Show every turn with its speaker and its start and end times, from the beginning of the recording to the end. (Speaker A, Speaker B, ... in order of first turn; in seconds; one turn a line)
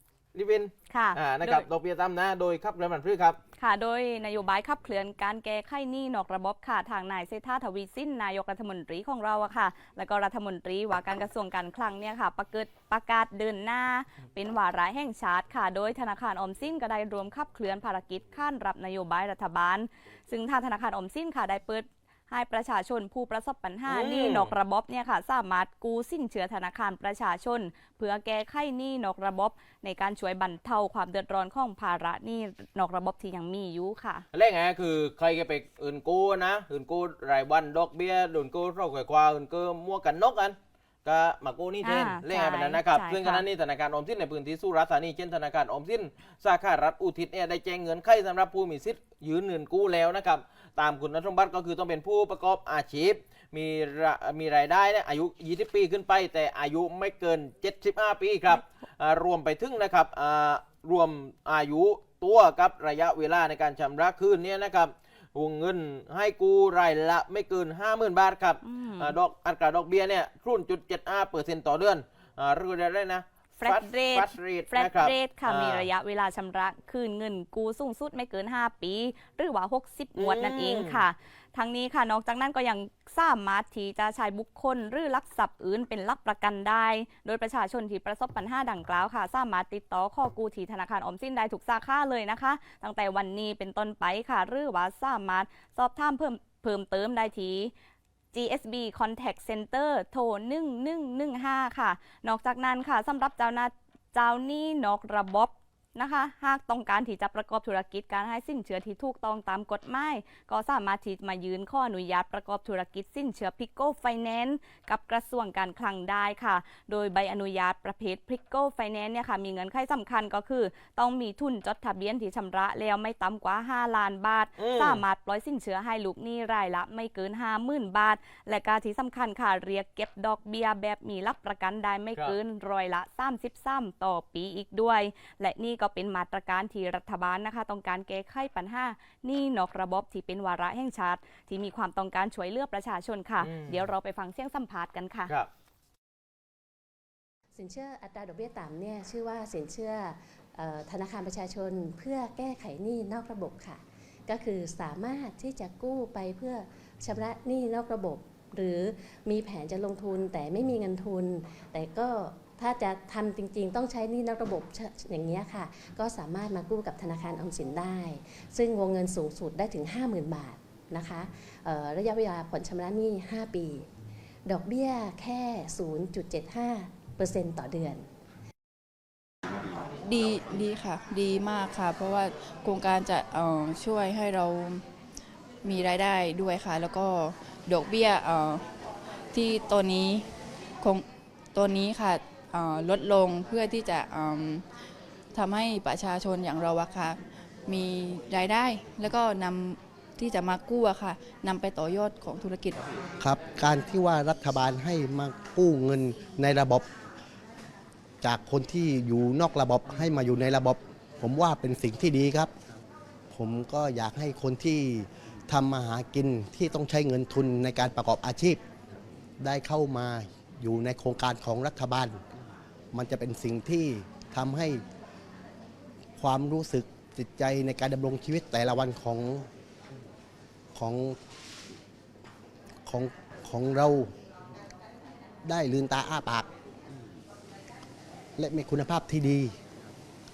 Speaker A: 0.3-3.4
Speaker B: 0.9-1.7
Speaker B: 3.6-34.2
Speaker A: 23.9-24.5
Speaker A: 34.3-75.9
Speaker B: 41.8-43.4
Speaker B: 68.6-69.2
Speaker B: 73.6-97.7
Speaker A: 80.2-81.0
Speaker B: 98.3-145.3
Speaker A: 124.6-125.0
Speaker A: 143.4-143.8
Speaker C: 147.6-173.9
Speaker C: 174.5-178.1
Speaker D: 180.0-184.8
Speaker D: 185.6-188.6
Speaker D: 189.3-190.2
Speaker D: 190.8-194.6
Speaker D: 195.3-202.8
Speaker E: 203.2-206.8
Speaker E: 208.2-212.5
Speaker E: 213.3-218.6
Speaker E: 219.4-222.2
Speaker E: 222.9-224.8
Speaker E: 226.2-229.5
Speaker E: 230.8-231.2
Speaker E: 232.9-234.1
Speaker E: 235.4-236.5
Speaker E: 238.4-239.6